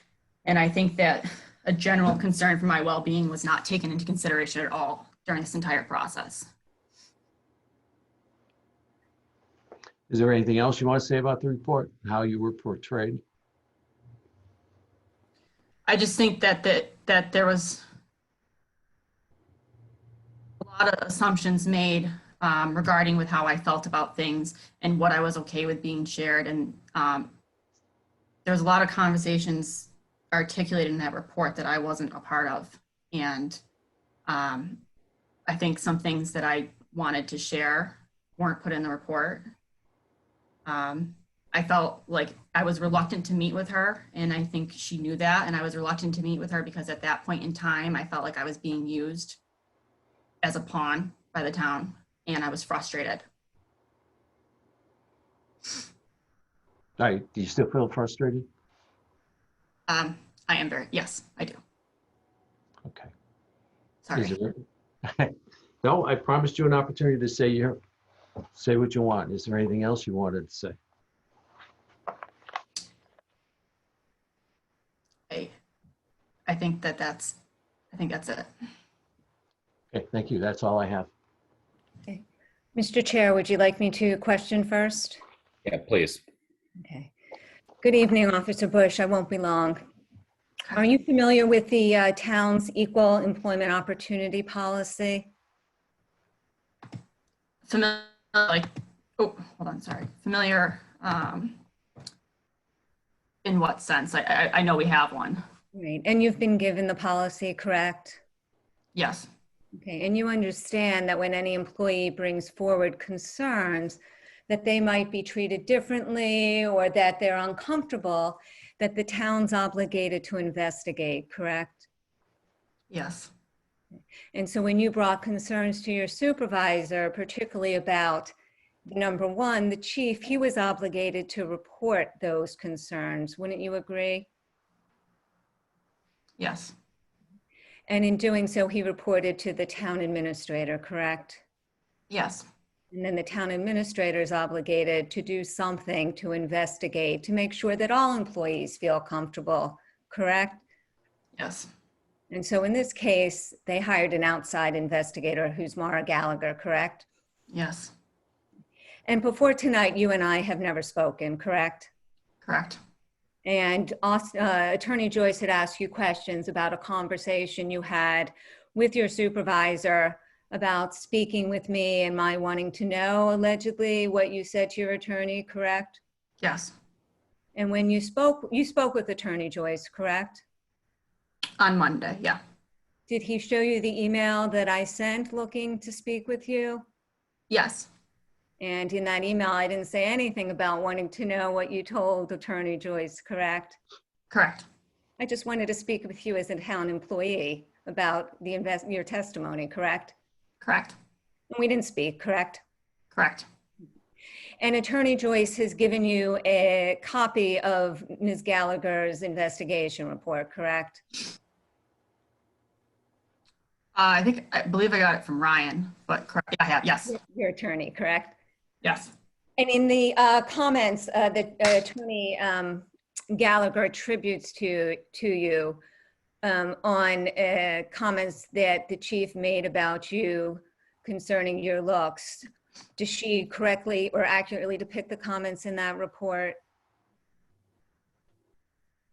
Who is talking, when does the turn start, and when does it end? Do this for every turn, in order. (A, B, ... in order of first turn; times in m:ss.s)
0:00.4-0:06.5 A
0:10.1-0:13.2 B
0:15.9-0:17.8 A
0:20.6-0:27.3 A
0:28.4-0:33.6 A
0:34.3-0:34.8 A
0:35.5-0:39.5 A
0:40.7-0:49.4 A
0:50.4-0:53.2 A
0:57.0-0:58.5 B
0:59.9-1:01.6 A
1:02.8-1:03.1 B
1:04.0-1:04.4 A
1:04.2-1:04.6 B
1:05.2-1:07.8 B
1:08.5-1:10.8 B
1:15.3-1:15.5 A
1:16.5-1:17.4 A
1:17.9-1:18.5 A
1:19.9-1:21.1 B
1:22.8-1:25.2 C
1:26.8-1:27.1 C
1:27.8-1:29.8 C
1:30.7-1:35.3 C
1:37.6-1:41.6 A
1:43.4-1:45.4 A
1:45.7-1:48.2 C
1:48.9-1:49.3 A
1:49.8-2:01.9 C
2:02.9-2:03.3 A
2:04.3-2:08.3 C
2:08.9-2:14.3 C
2:16.4-2:16.7 A
2:17.9-2:21.4 C
2:22.1-2:22.5 A
2:22.9-2:30.6 C
2:31.4-2:31.7 A
2:32.3-2:37.1 C
2:37.5-2:37.9 A
2:39.1-2:41.9 C
2:42.4-2:42.8 A
2:43.4-2:56.0 C
2:56.4-2:56.7 A
2:57.6-3:00.4 C
3:01.6-3:02.4 A
3:03.1-3:06.8 C
3:07.5-3:07.9 A
3:08.6-3:13.8 C
3:14.3-3:14.6 A
3:15.2-3:20.2 C
3:20.6-3:21.0 A
3:21.5-3:22.6 C
3:23.1-3:23.4 A
3:24.6-3:31.2 C
3:34.0-3:37.2 A
3:37.1-3:38.4 C
3:38.8-3:39.1 A
3:39.6-3:45.8 C
3:46.4-3:56.6 C